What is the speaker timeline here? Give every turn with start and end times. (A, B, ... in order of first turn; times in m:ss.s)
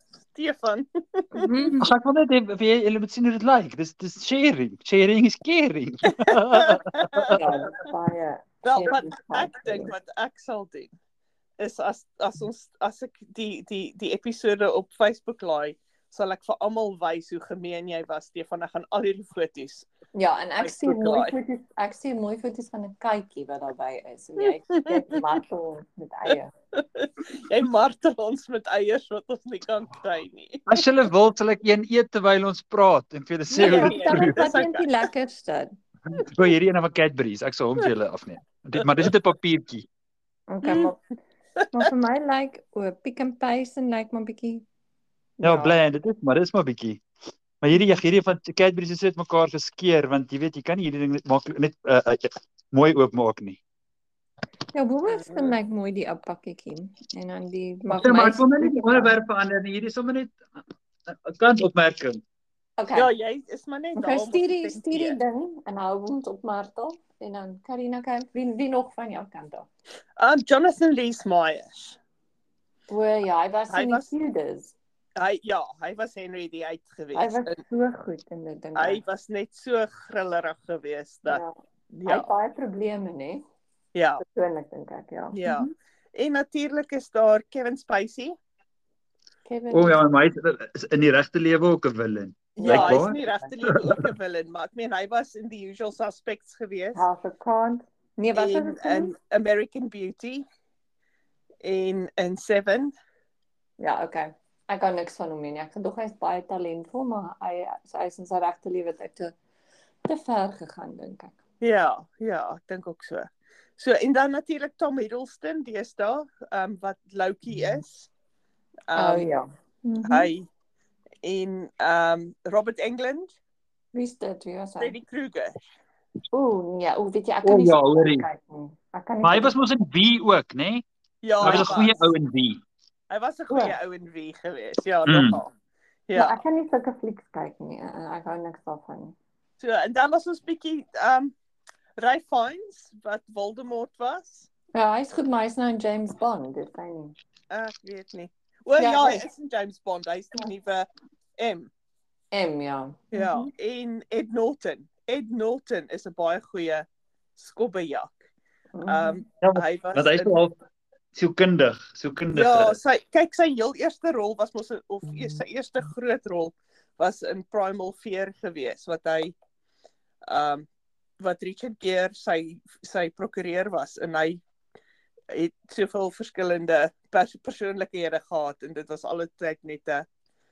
0:00.3-0:01.7 A
0:01.3-0:01.9 B
0:01.8-0:07.4 C
0:06.2-0:07.7 A
0:07.3-0:09.9 B
0:08.6-0:10.9 A
0:11.6-0:19.9 A
0:20.1-0:26.5 B
0:20.6-0:21.3 A
0:24.4-0:25.3 A
0:26.8-0:30.8 A
0:30.7-0:34.4 C
0:33.5-0:35.7 B
0:33.6-0:34.9 A
0:36.2-0:39.9 C
0:40.5-0:41.0 B
0:40.6-0:40.9 A
0:41.7-0:44.6 B
0:45.4-0:45.8 B
0:45.4-0:47.0 C
0:47.6-0:53.6 C
0:54.7-0:59.2 B
0:55.1-0:55.6 A
0:57.9-1:00.4 C
1:01.1-1:02.2 C
1:02.8-1:03.1 B
1:02.9-1:05.2 A
1:04.0-1:09.7 B
1:10.2-1:12.0 A
1:12.9-1:14.7 B
1:13.7-1:14.1 A
1:15.2-1:17.6 A
1:17.1-1:19.0 B
1:18.8-1:22.3 A
1:21.3-1:21.5 B
1:22.0-1:23.4 B
1:23.9-1:24.2 A
1:24.2-1:25.7 B
1:25.3-1:28.3 A
1:29.4-1:30.0 B
1:29.7-1:33.1 C
1:32.5-1:37.0 A
1:32.6-1:33.5 B
1:36.9-1:39.1 B
1:38.3-1:40.4 A
1:41.6-1:42.9 A
1:43.8-1:49.4 B
1:50.0-1:51.4 B
1:51.6-1:58.1 A
1:58.9-1:59.3 A
1:58.9-2:00.3 B
2:00.0-2:00.5 A
2:01.2-2:03.4 A
2:03.9-2:05.0 B
2:04.8-2:05.6 A
2:06.3-2:09.6 B
2:07.4-2:08.3 C
2:09.2-2:10.8 C
2:11.2-2:12.1 A
2:11.4-2:11.7 B
2:11.4-2:12.6 C
2:13.1-2:15.5 A
2:13.5-2:13.8 B
2:15.1-2:15.4 C
2:16.1-2:16.4 A
2:16.1-2:19.2 B
2:19.6-2:21.3 A
2:22.0-2:24.5 A
2:24.7-2:27.2 B
2:27.5-2:31.7 A
2:28.8-2:29.2 B
2:32.3-2:33.5 B
2:33.1-2:36.8 A
2:37.4-2:38.2 A
2:38.7-2:39.2 B
2:38.9-2:40.4 A
2:39.4-2:40.6 C
2:41.1-2:42.8 C
2:42.3-2:49.4 A
2:50.2-2:50.7 A
2:51.2-2:54.4 A
2:55.3-3:00.0 A